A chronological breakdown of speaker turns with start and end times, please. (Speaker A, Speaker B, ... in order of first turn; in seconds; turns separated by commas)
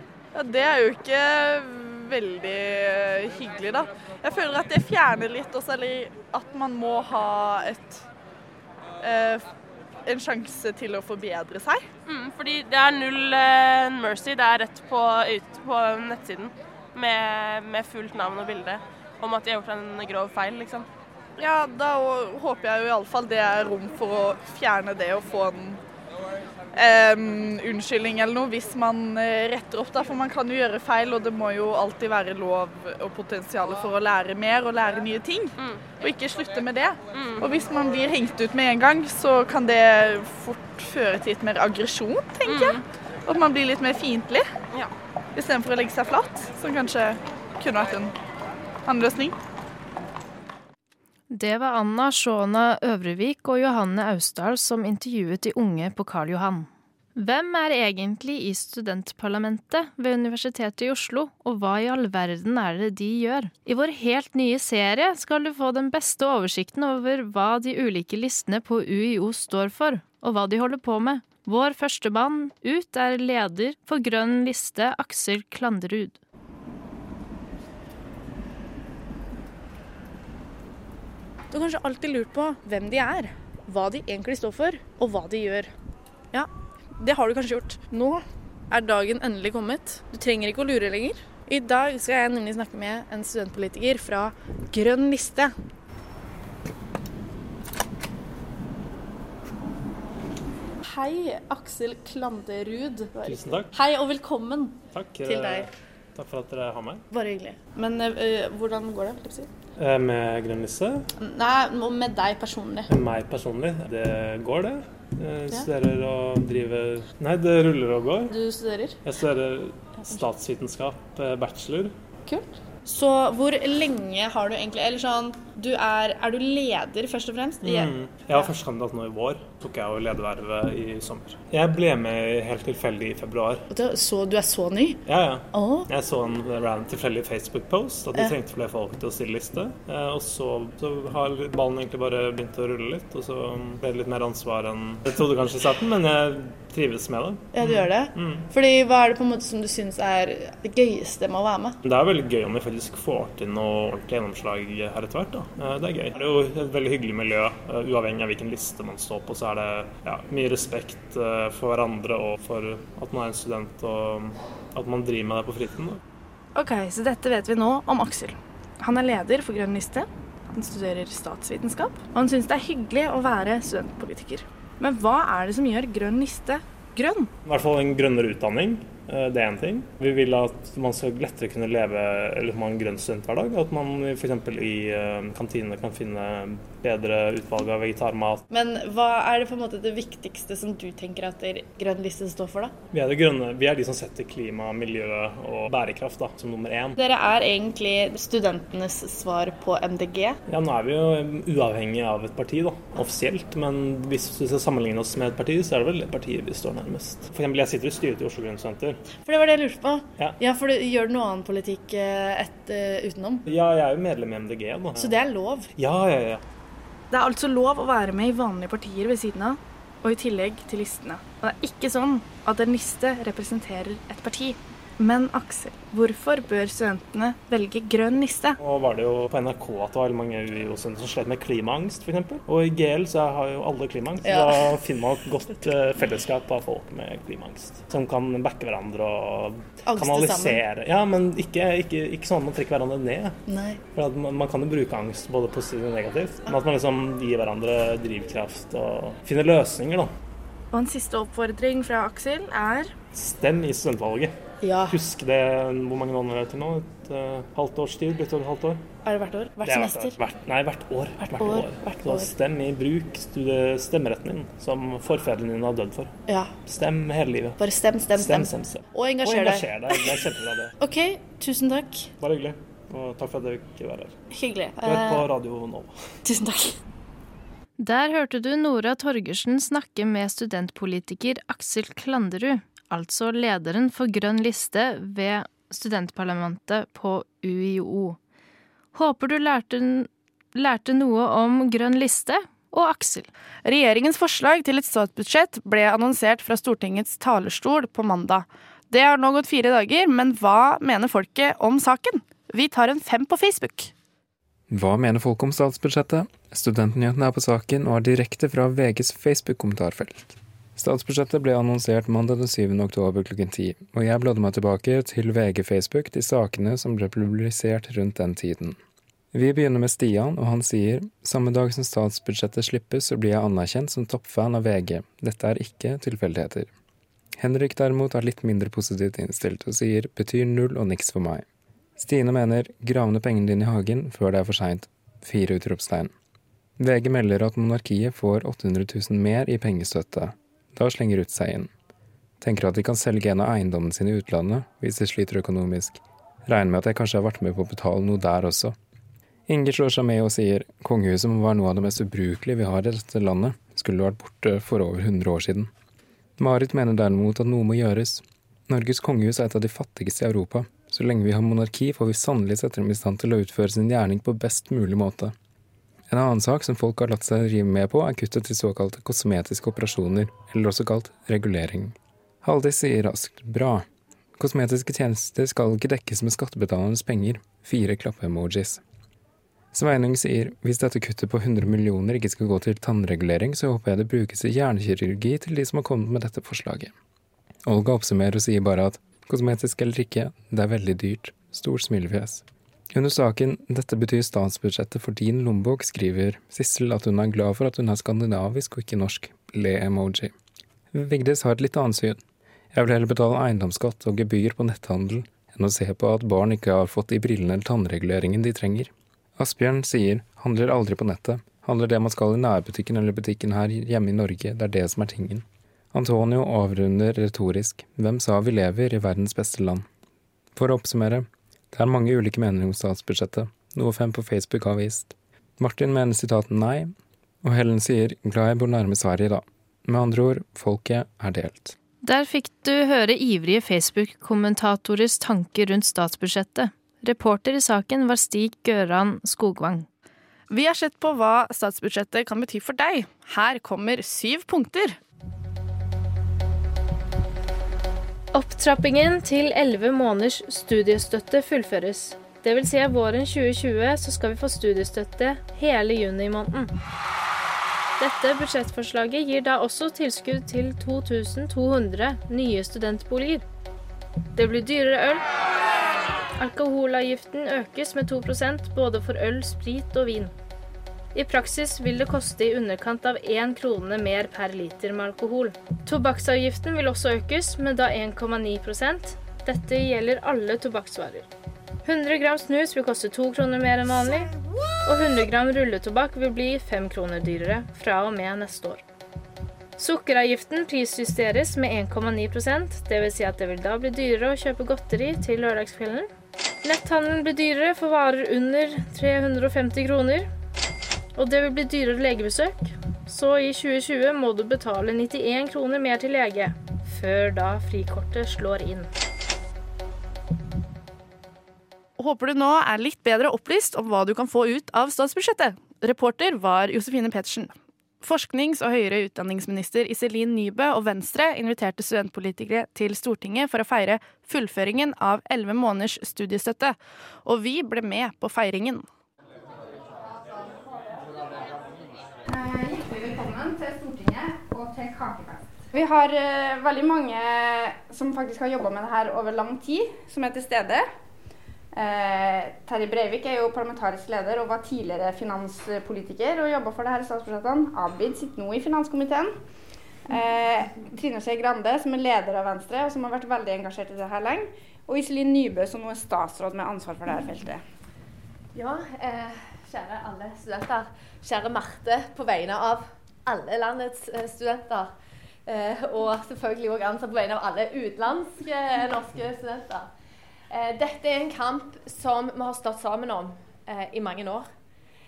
Speaker A: 0.3-8.0, Speaker A: 9.0-9.4, Speaker A: 10.0-11.9, Speaker B: 12.1-20.9, Speaker A: 21.4-25.8, Speaker A: 26.7-44.5, Speaker B: 35.6-35.9, Speaker B: 37.1-37.6, Speaker B: 42.4-42.8, Speaker A: 45.3-48.1, Speaker A: 48.9-49.4, Speaker C: 51.3-76.2, Speaker D: 81.5-85.7, Speaker D: 86.3-95.5, Speaker D: 100.8-105.7, Speaker E: 103.2-103.7, Speaker E: 104.9-107.0, Speaker D: 107.1-109.5, Speaker E: 109.8-111.1, Speaker D: 111.2-112.9, Speaker E: 112.9-118.3, Speaker D: 118.3-119.0, Speaker E: 119.0-121.9, Speaker D: 122.2-128.5, Speaker E: 127.6-133.7, Speaker D: 133.7-135.9, Speaker E: 135.1-148.4, Speaker D: 147.5-151.8, Speaker E: 151.8-166.0, Speaker D: 166.5-177.3, Speaker E: 177.4-188.4, Speaker D: 188.5-192.7, Speaker E: 192.9-197.0, Speaker D: 197.0-200.4, Speaker E: 200.5-209.0, Speaker D: 209.1-213.4, Speaker E: 213.5-215.1, Speaker D: 215.0-215.7, Speaker E: 215.8-216.4, Speaker D: 217.1-228.6, Speaker E: 228.6-243.4, Speaker D: 234.2-234.8, Speaker D: 239.8-240.6, Speaker D: 243.5-243.8, Speaker E: 243.9-250.1, Speaker D: 250.7-252.9, Speaker E: 253.1-254.3, Speaker D: 254.6-255.0, Speaker E: 254.9-258.8, Speaker D: 259.0-260.2, Speaker E: 259.6-266.1, Speaker D: 261.2-262.3, Speaker D: 266.3-266.6, Speaker E: 266.6-267.6, Speaker D: 267.6-270.2, Speaker E: 268.1-270.7, Speaker D: 270.8-272.1, Speaker E: 272.2-274.1, Speaker D: 274.3-275.3, Speaker E: 274.8-275.9, Speaker D: 276.2-276.8, Speaker C: 277.8-288.2, Speaker C: 288.9-293.3, Speaker D: 293.6-303.9, Speaker F: 304.7-318.8, Speaker F: 319.3-326.7, Speaker F: 327.4-331.4, Speaker F: 332.0-336.1, Speaker F: 336.8-341.7, Speaker F: 342.4-348.8, Speaker F: 349.5-355.7, Speaker F: 356.4-365.3, Speaker F: 366.1-373.8, Speaker F: 374.4-378.8, Speaker F: 379.7-386.9, Speaker F: 387.6-400.3, Speaker F: 400.9-402.2, Speaker F: 402.7-419.9, Speaker F: 420.5-431.8, Speaker C: 432.0-439.9, Speaker D: 440.5-445.0, Speaker C: 448.3-456.7, Speaker C: 458.0-463.4, Speaker C: 464.3-465.2, Speaker C: 466.4-470.3, Speaker C: 471.1-481.3, Speaker C: 481.8-484.3, Speaker C: 484.8-488.8, Speaker C: 489.8-496.1, Speaker C: 496.6-500.3, Speaker C: 501.1-508.9, Speaker D: 512.0-528.9, Speaker G: 532.3-540.9, Speaker G: 541.7-549.4, Speaker G: 550.1-557.6, Speaker H: 558.5-564.9, Speaker H: 565.5-569.9, Speaker H: 570.5-574.5